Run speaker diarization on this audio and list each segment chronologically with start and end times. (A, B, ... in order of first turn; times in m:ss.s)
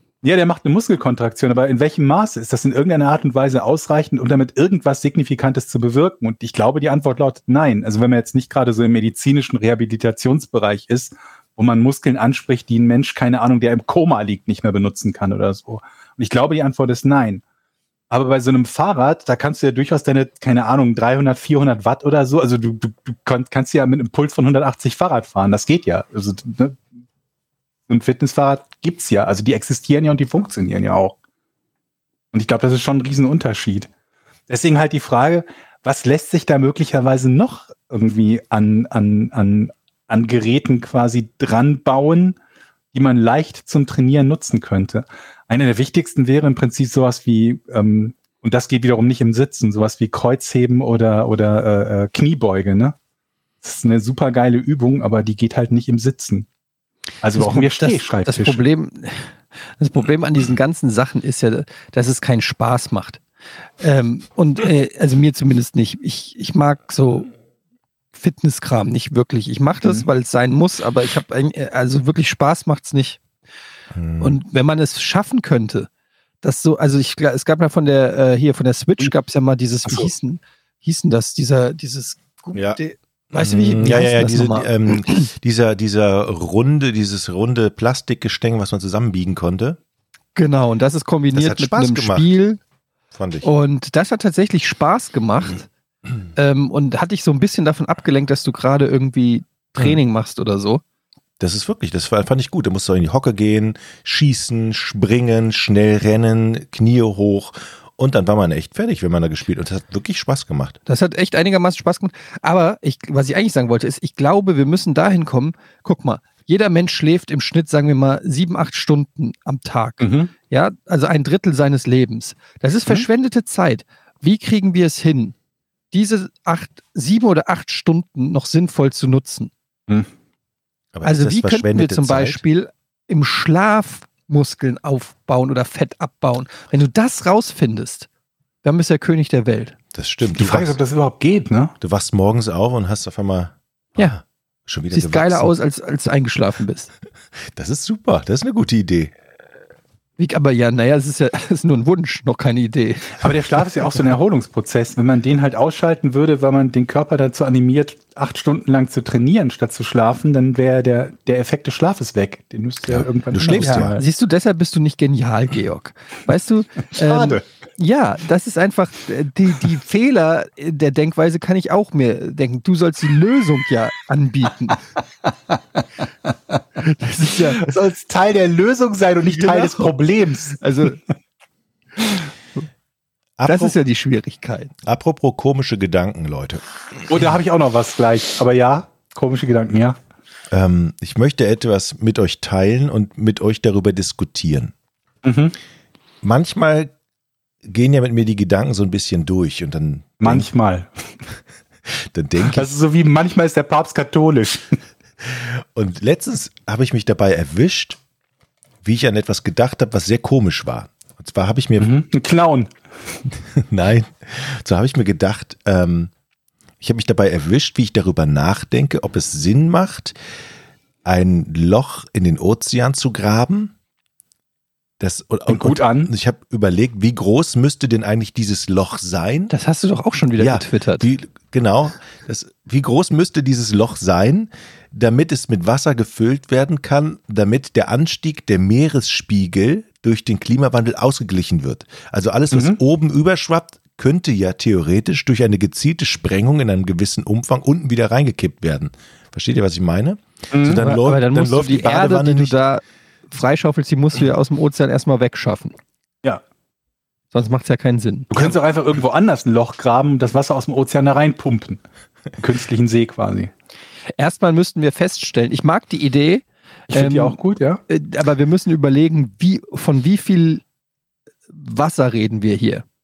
0:00.2-0:17.4 A
0:18.1-0:26.8 A
0:27.9-0:31.2 A
0:32.3-0:33.9 A
0:34.5-0:42.4 A
0:42.9-0:53.0 A
0:53.6-0:56.5 A
0:57.2-0:58.6 A
0:57.4-1:03.2 B
1:03.8-1:07.3 B
1:08.1-1:13.2 B
1:13.9-1:14.4 C
1:14.2-1:15.9 B
1:16.4-1:25.2 B
1:22.5-1:22.8 C
1:23.3-1:29.8 C
1:30.3-1:32.6 B
1:31.3-1:32.3 C
1:33.1-1:33.5 C
1:33.4-1:35.7 B
1:36.3-1:40.8 B
1:41.4-1:50.8 C
1:50.9-2:05.3 B
2:00.0-2:00.3 A
2:05.9-2:09.5 B
2:10.9-2:12.4 C
2:11.0-2:18.1 B
2:18.6-2:19.8 B
2:19.9-2:20.8 C
2:20.3-2:21.7 A
2:21.8-2:25.5 C
2:24.9-2:26.9 B
2:27.5-2:29.1 C
2:30.2-2:33.2 B
2:33.2-2:44.0 A
2:42.9-2:43.9 C
2:43.5-2:54.8 B
2:47.1-2:47.4 C
2:56.8-2:57.7 B
2:57.5-3:00.6 A
2:59.3-2:59.9 B
3:00.6-3:01.0 B
3:03.4-3:03.7 C
3:03.4-3:04.7 B
3:04.8-3:06.6 C
3:07.1-3:10.0 A
3:10.5-3:14.7 C
3:15.2-3:15.6 A
3:16.2-3:16.9 C
3:17.6-3:20.5 C
3:20.2-3:20.9 A
3:21.9-3:22.7 C
3:22.5-3:24.7 A
3:25.2-3:28.0 C
3:28.8-3:31.9 C
3:31.8-3:32.7 A
3:33.5-3:36.1 C
3:36.8-3:40.1 C
3:41.0-3:43.7 C
3:45.0-3:49.5 C
3:45.5-3:46.1 A
3:49.5-3:51.1 B
3:50.4-4:12.6 C
4:02.5-4:02.8 A
4:10.5-4:10.8 A
4:10.8-4:15.7 B
4:17.3-4:18.5 B
4:18.3-4:21.8 A
4:22.4-4:23.5 A
4:24.2-4:27.4 B
4:26.9-4:27.8 A
4:27.9-4:30.6 B
4:31.5-4:32.8 B